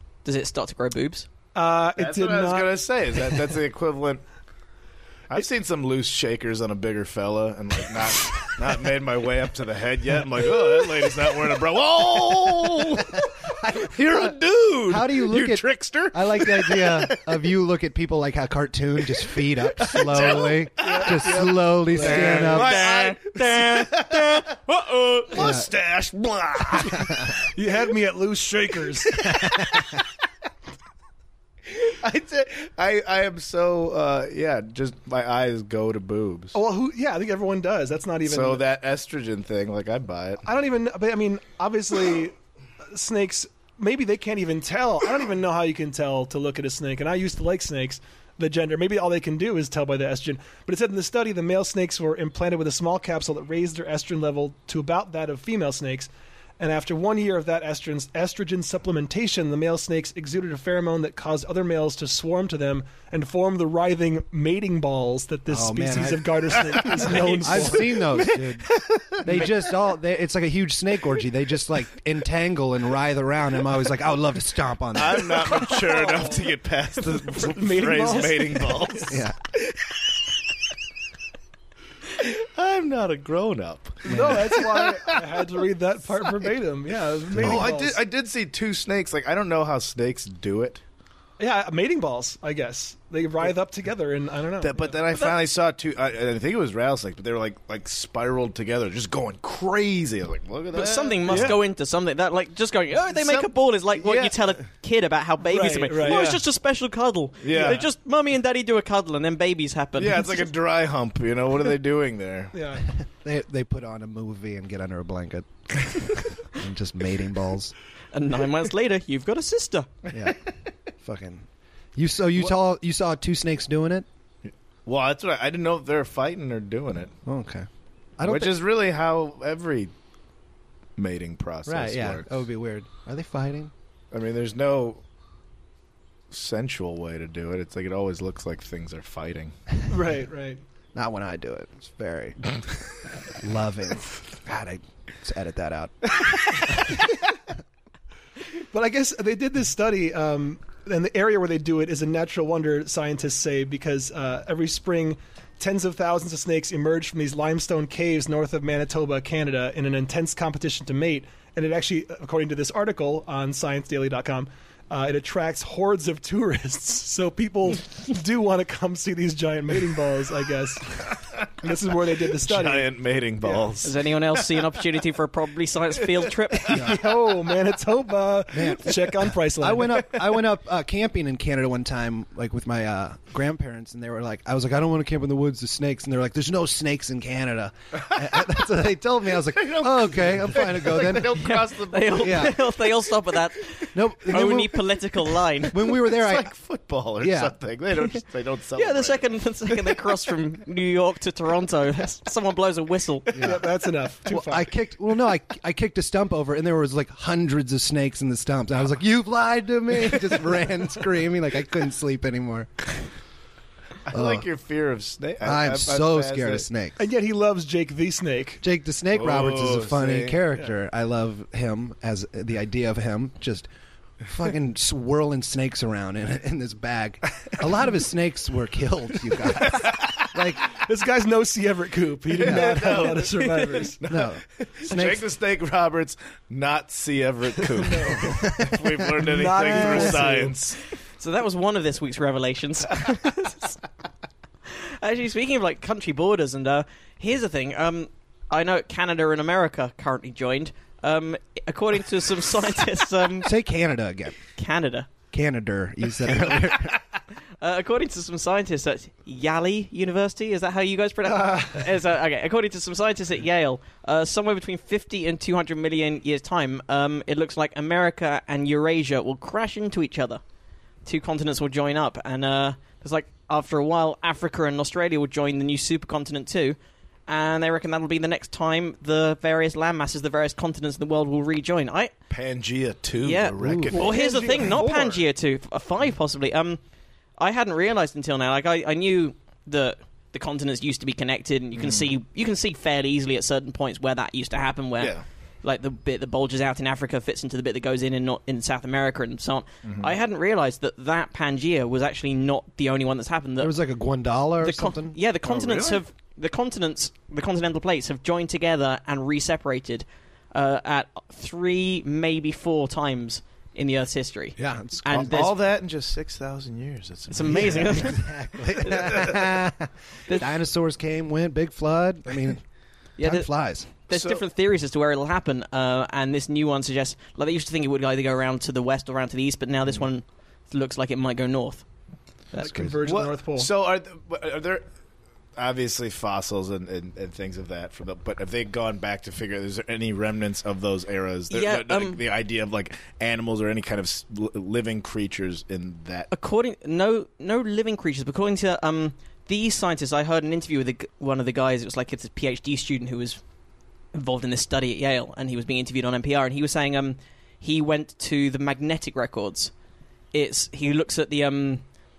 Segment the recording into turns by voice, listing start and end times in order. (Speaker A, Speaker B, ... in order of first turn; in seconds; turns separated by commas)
Speaker A: 0.2-1.3, Speaker B: 1.6-3.4, Speaker C: 2.0-4.2, Speaker C: 5.3-17.4, Speaker D: 14.9-22.8, Speaker C: 19.1-27.4, Speaker B: 20.8-22.7, Speaker A: 22.4-25.2, Speaker D: 25.3-25.7, Speaker D: 26.9-27.3, Speaker B: 27.5-29.3, Speaker C: 29.2-30.0, Speaker D: 29.2-29.9, Speaker C: 31.7-36.6, Speaker B: 36.5-38.6, Speaker C: 38.2-40.4, Speaker B: 40.5-68.3, Speaker D: 65.5-66.4, Speaker C: 66.6-69.6, Speaker D: 67.4-75.6, Speaker C: 74.9-80.0, Speaker B: 75.7-76.5, Speaker B: 77.3-79.2, Speaker D: 79.1-79.4, Speaker C: 82.1-85.5, Speaker D: 84.1-84.6, Speaker B: 84.1-88.0, Speaker C: 87.3-90.8, Speaker D: 87.3-87.7, Speaker B: 91.4-95.0, Speaker C: 94.6-101.6, Speaker A: 100.7-110.5, Speaker B: 101.3-101.6, Speaker C: 103.2-104.5, Speaker B: 105.4-106.4, Speaker C: 106.0-106.4, Speaker C: 107.4-107.8, Speaker B: 107.5-107.8, Speaker C: 110.0-112.5, Speaker B: 112.5-112.9, Speaker D: 112.9-117.7, Speaker A: 118.1-119.9, Speaker D: 121.0-121.5, Speaker D: 122.0-124.1, Speaker C: 124.5-127.1, Speaker D: 127.2-127.7, Speaker D: 128.2-128.6, Speaker C: 128.2-129.9, Speaker C: 131.0-132.3, Speaker D: 131.7-133.7, Speaker C: 134.1-135.0, Speaker C: 136.3-139.5, Speaker B: 139.9-140.6, Speaker D: 140.9-142.5, Speaker D: 143.4-147.0, Speaker B: 148.7-172.9, Speaker C: 172.4-174.6, Speaker B: 173.4-173.7, Speaker A: 173.8-176.9, Speaker D: 176.7-177.0, Speaker B: 176.7-180.1, Speaker D: 178.5-191.4, Speaker C: 188.0-188.5, Speaker C: 189.4-192.6, Speaker A: 191.3-195.8, Speaker D: 192.2-192.6, Speaker D: 193.9-194.8, Speaker D: 195.7-196.5, Speaker C: 195.9-200.0, Speaker D: 197.2-197.5, Speaker A: 198.8-203.6, Speaker D: 203.3-203.6, Speaker B: 203.4-204.7, Speaker D: 204.2-213.0, Speaker C: 214.1-216.7, Speaker D: 214.1-214.4, Speaker D: 215.4-217.0, Speaker B: 217.0-218.6, Speaker D: 218.6-223.7, Speaker C: 219.1-220.4, Speaker D: 224.2-230.7, Speaker C: 229.5-230.4, Speaker B: 230.8-234.0, Speaker C: 232.3-240.8, Speaker D: 232.4-232.9, Speaker D: 234.1-235.3, Speaker B: 237.8-238.7, Speaker D: 238.2-240.1, Speaker B: 239.2-240.6, Speaker A: 241.2-243.8, Speaker A: 244.7-253.5, Speaker D: 253.4-254.4, Speaker A: 254.6-255.1, Speaker D: 255.3-257.0, Speaker A: 257.6-270.4, Speaker B: 261.3-261.8, Speaker A: 271.1-282.1, Speaker C: 282.3-284.2, Speaker A: 283.2-286.8, Speaker D: 283.6-284.0, Speaker B: 283.9-285.2, Speaker A: 287.4-303.7, Speaker C: 291.8-292.1, Speaker C: 299.8-300.1, Speaker D: 303.6-305.2, Speaker A: 304.6-315.5, Speaker C: 305.4-306.0, Speaker D: 314.6-315.5, Speaker C: 315.1-318.2, Speaker A: 317.3-318.2, Speaker D: 317.5-322.6, Speaker C: 318.8-319.5, Speaker A: 320.3-320.6, Speaker A: 323.2-331.9, Speaker D: 323.2-323.9, Speaker C: 324.1-324.4, Speaker B: 332.6-333.7, Speaker C: 333.0-334.8, Speaker C: 335.6-346.3, Speaker A: 341.5-342.2, Speaker A: 346.3-353.4, Speaker A: 354.1-359.7, Speaker A: 360.3-361.8